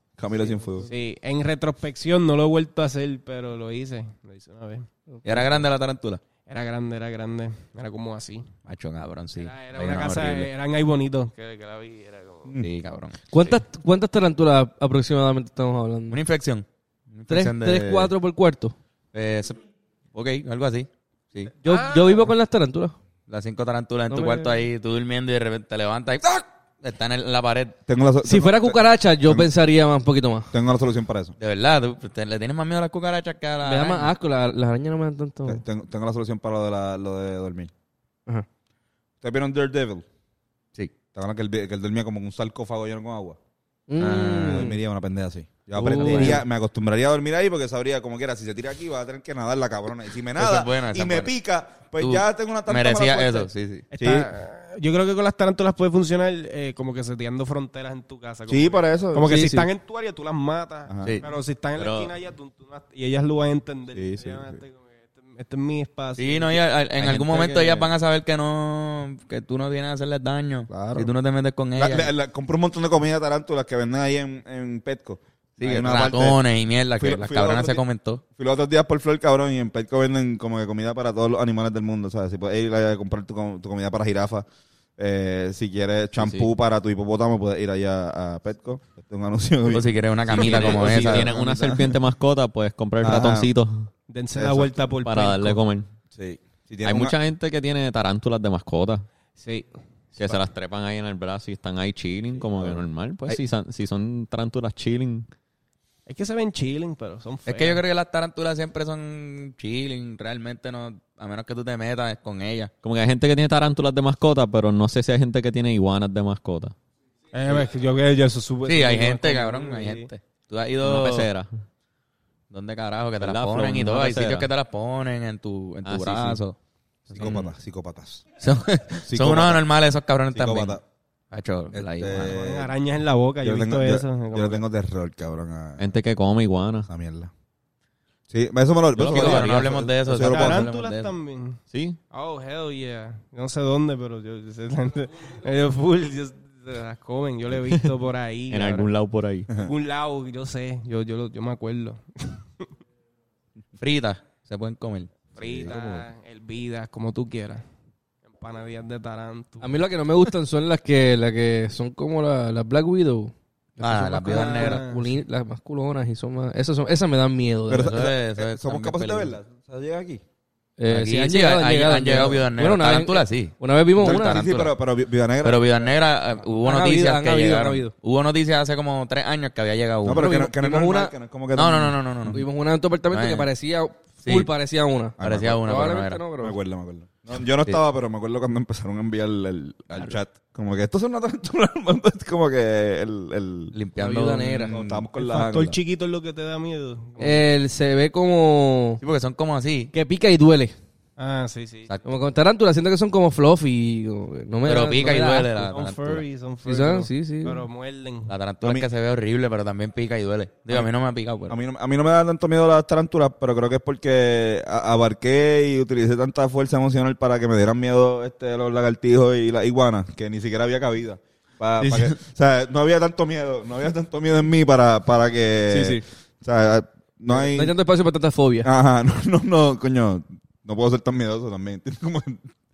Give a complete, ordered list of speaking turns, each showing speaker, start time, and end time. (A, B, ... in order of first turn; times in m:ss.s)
0:00.2-0:00.9 A
0:00.8-0:04.9 B
0:05.1-0:05.6 C
0:05.2-0:06.2 D
0:06.5-0:08.5 B
0:08.6-0:10.5 D
0:09.4-0:12.5 B
0:12.6-0:13.6 D
0:13.3-0:16.2 C
0:16.1-0:18.1 D
0:17.3-0:18.8 C
0:19.1-0:19.6 D
0:20.1-0:21.5 D
0:21.6-0:23.0 C
0:21.6-0:22.3 B
0:23.3-0:27.7 D
0:24.1-0:24.5 C
0:27.9-0:29.5 A
0:28.2-0:30.5 C
0:30.5-0:31.4 A
0:31.4-0:34.1 D
0:33.6-0:35.6 C
0:35.4-0:37.7 A
0:39.2-0:40.0 A
0:41.1-0:43.4 A
0:43.9-0:44.7 C
0:44.0-0:44.8 D
0:44.4-0:54.3 A
0:45.7-0:46.4 C
0:45.8-0:46.4 D
0:50.4-0:51.3 D
0:52.0-0:53.9 D
0:54.0-1:06.6 B
0:58.5-0:59.4 A
0:59.2-0:59.7 C
1:00.9-1:01.2 A
1:01.8-1:02.1 D
1:03.9-1:04.6 A
1:06.2-1:12.1 D
1:07.0-1:07.9 E
1:10.7-1:11.1 A
1:11.8-1:16.4 A
1:15.6-1:18.2 D
1:17.0-1:17.8 A
1:18.4-1:24.4 A
1:25.0-1:32.0 A
1:29.7-1:31.3 D
1:30.3-1:33.9 E
1:33.0-1:33.5 A
1:34.1-1:35.6 B
1:34.3-1:34.8 A
1:35.0-1:35.9 E
1:36.1-1:37.2 A
1:36.8-1:39.0 E
1:39.4-1:39.7 B
1:40.1-1:45.3 E
1:42.6-1:43.4 A
1:46.1-1:47.8 B
1:47.4-1:52.7 D
1:52.8-1:56.7 E
1:57.3-2:00.1 B
1:58.7-2:01.3 D
2:00.8-2:01.6 E
2:02.5-2:06.6 D
2:03.2-2:04.5 E
2:05.8-2:06.4 E
2:07.1-2:07.4 D
2:07.2-2:08.2 A
2:08.4-2:10.8 D
2:09.0-2:09.6 A
2:10.3-2:10.8 A
2:11.3-2:12.4 D
2:11.7-2:12.7 A
2:12.2-2:14.6 B
2:13.4-2:15.9 A
2:15.8-2:16.9 E
2:16.9-2:17.3 A
2:18.3-2:20.6 A
2:19.0-2:19.5 B
2:19.0-2:21.1 D
2:20.2-2:21.6 B
2:21.7-2:22.0 E
2:22.1-2:28.9 B
2:28.5-2:29.5 E
2:29.6-2:32.7 B
2:33.8-2:35.1 D
2:35.3-2:36.0 A
2:35.4-2:37.6 B
2:38.2-2:39.8 B
2:39.6-2:47.9 C
2:43.8-2:44.9 D
2:44.3-2:45.0 B
2:47.7-2:50.2 A
2:47.7-2:49.3 D
2:50.8-2:54.4 C
2:50.9-2:54.7 D
2:54.0-2:56.0 A
2:55.4-3:00.3 D
2:56.6-2:57.9 C
3:00.0-3:02.4 A
3:00.1-3:01.1 C
3:01.6-3:02.4 D
3:02.3-3:06.6 C
3:03.1-3:03.5 D
3:04.2-3:04.5 D
3:05.2-3:05.6 A
3:05.2-3:06.2 D
3:06.4-3:13.7 A
3:13.7-3:15.0 D
3:14.0-3:14.7 C
3:14.7-3:15.8 A
3:15.2-3:17.4 B
3:17.2-3:19.0 C
3:19.0-3:19.9 D
3:19.9-3:20.8 C
3:21.2-3:21.9 B
3:22.0-3:25.5 C
3:24.6-3:26.2 D
3:25.6-3:28.3 B
3:26.6-3:27.6 C
3:28.3-3:31.6 D
3:28.6-3:28.9 A
3:31.5-3:47.8 A
3:45.7-3:46.0 C
3:47.3-3:48.7 C
3:48.6-3:52.5 A